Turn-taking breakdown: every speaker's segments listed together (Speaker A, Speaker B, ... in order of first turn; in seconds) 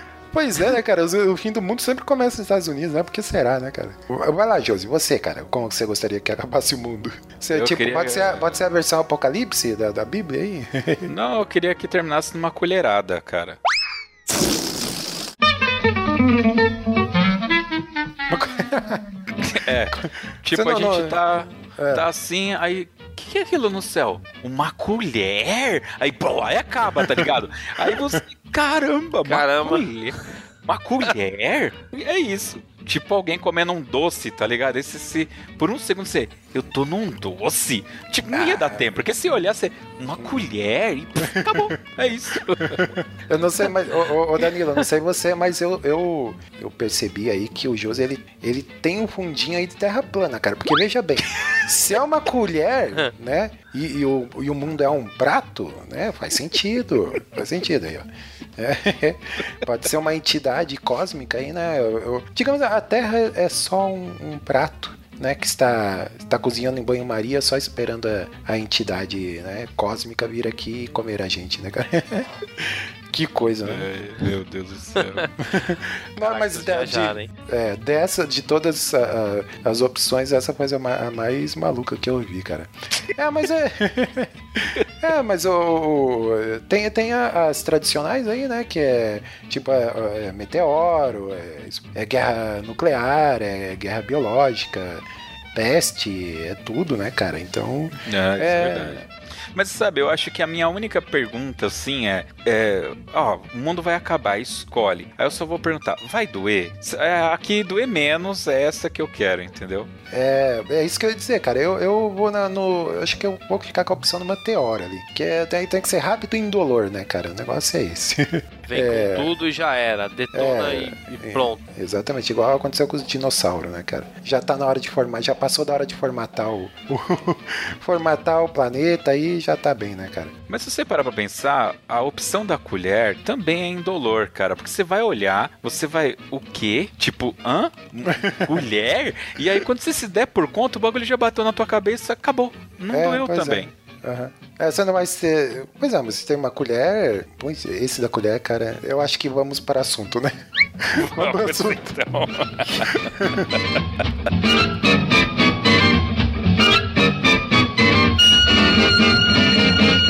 Speaker A: 0.3-11.1, 18.3-19.1, 20.5-21.2, 21.8-22.1, 38.3-38.9, 40.2-40.5, 41.2-41.7, 42.8-73.9, 75.4-99.0, 110.1-119.3, 120.3-130.3, 138.1-138.6, 142.9-151.9, 152.8-153.5
Speaker B: 7.5-8.6, 11.1-13.6, 19.4-42.9, 73.7-75.5, 98.0-109.9, 130.5-143.7, 150.9-153.4
Speaker C: 29.3-29.9, 76.2-77.3, 118.7-121.6